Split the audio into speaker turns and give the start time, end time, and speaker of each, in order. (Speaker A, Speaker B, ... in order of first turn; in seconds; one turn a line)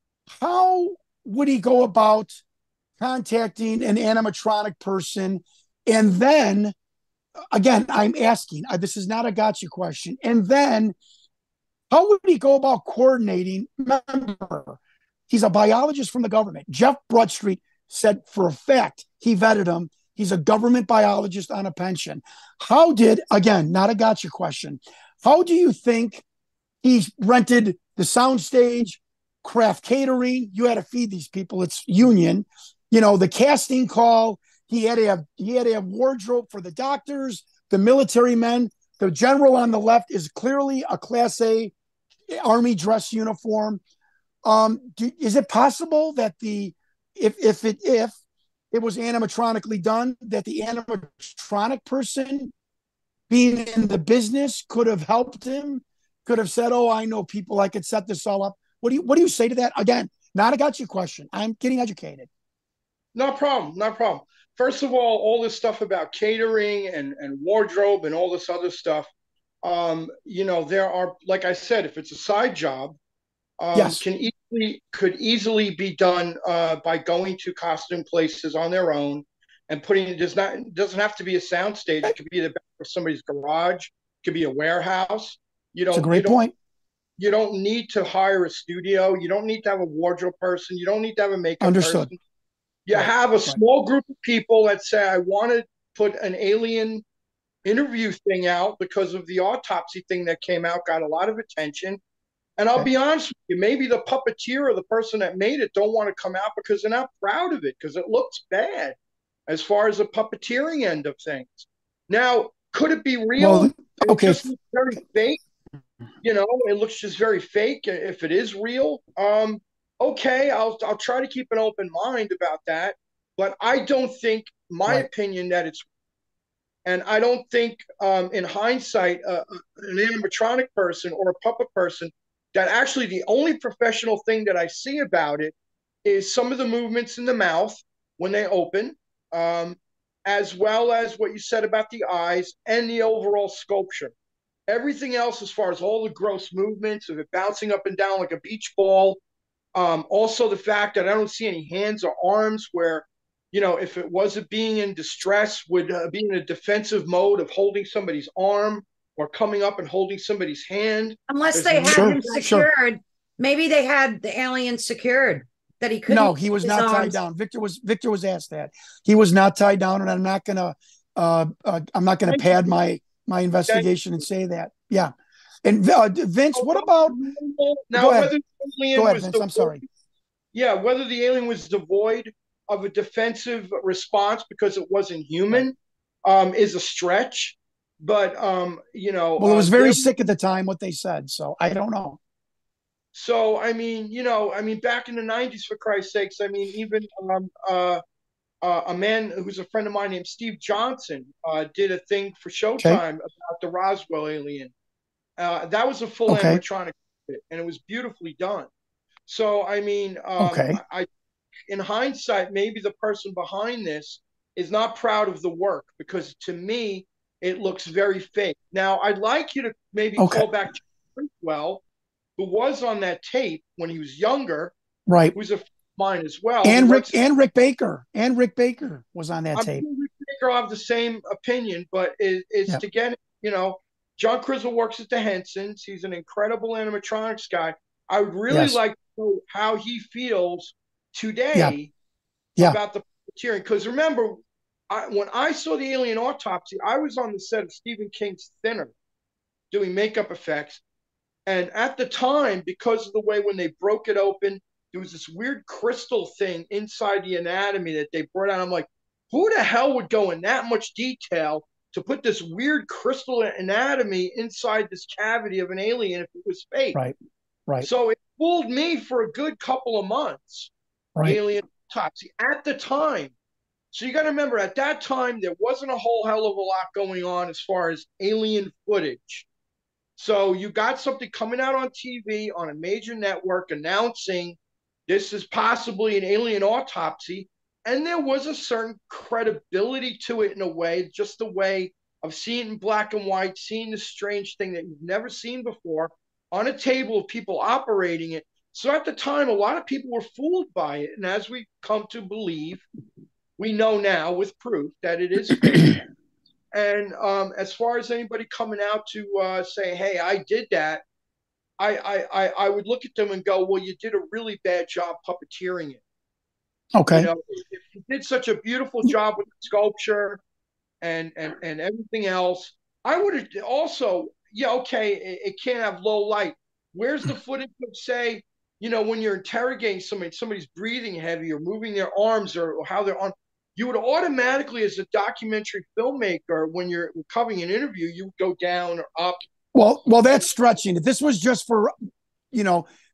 Speaker A: 0.3-2.4
Speaker A: 3.0-6.7
Speaker A: 7.5-10.9
Speaker A: 11.9-26.2
Speaker A: 26.8-41.7
Speaker A: 42.3-43.8
Speaker A: 44.5-48.1
Speaker A: 48.7-52.5
Speaker A: 53.3-62.3
Speaker B: 63.1-69.1
Speaker B: 69.6-73.0
Speaker B: 73.6-86.4
Speaker A: 73.8-74.0
Speaker A: 85.9-86.5
Speaker B: 87.2-92.2
Speaker A: 91.6-92.1
Speaker B: 92.9-97.0
Speaker A: 92.9-93.6
Speaker B: 97.7-102.0
Speaker B: 102.6-109.0
Speaker B: 109.5-115.4
Speaker A: 113.4-114.4
Speaker B: 116.2-125.9
Speaker B: 126.8-144.1
Speaker B: 144.7-149.2
Speaker B: 149.8-162.4
Speaker C: 161.3-167.2
Speaker A: 161.9-162.7
Speaker A: 166.1-175.1
Speaker B: 172.3-172.6
Speaker B: 173.7-174.0
Speaker A: 175.6-177.2
Speaker B: 176.5-179.8
Speaker A: 177.9-178.3
Speaker A: 178.9-179.8
Speaker B: 180.5-185.7
Speaker B: 186.2-190.2
Speaker A: 189.4-192.2
Speaker B: 193.1-198.0
Speaker B: 198.6-204.7
Speaker B: 205.4-208.7
Speaker A: 206.3-206.6
Speaker B: 209.3-211.1
Speaker A: 210.4-210.8
Speaker B: 211.7-221.8
Speaker A: 220.2-220.5
Speaker B: 222.4-224.7
Speaker A: 225.1-225.4
Speaker B: 225.3-227.2
Speaker A: 226.6-229.8
Speaker B: 229.6-241.9
Speaker A: 238.5-238.8
Speaker B: 242.6-248.9
Speaker B: 249.7-250.8
Speaker B: 251.5-267.0
Speaker B: 267.8-270.7
Speaker B: 271.2-273.3
Speaker B: 273.9-279.5
Speaker B: 280.2-302.8
Speaker B: 303.6-306.0
Speaker B: 306.7-311.0
Speaker B: 311.8-316.0
Speaker A: 316.9-317.3
Speaker B: 317.1-320.4
Speaker B: 321.0-339.4
Speaker A: 339.7-341.9
Speaker A: 342.5-342.9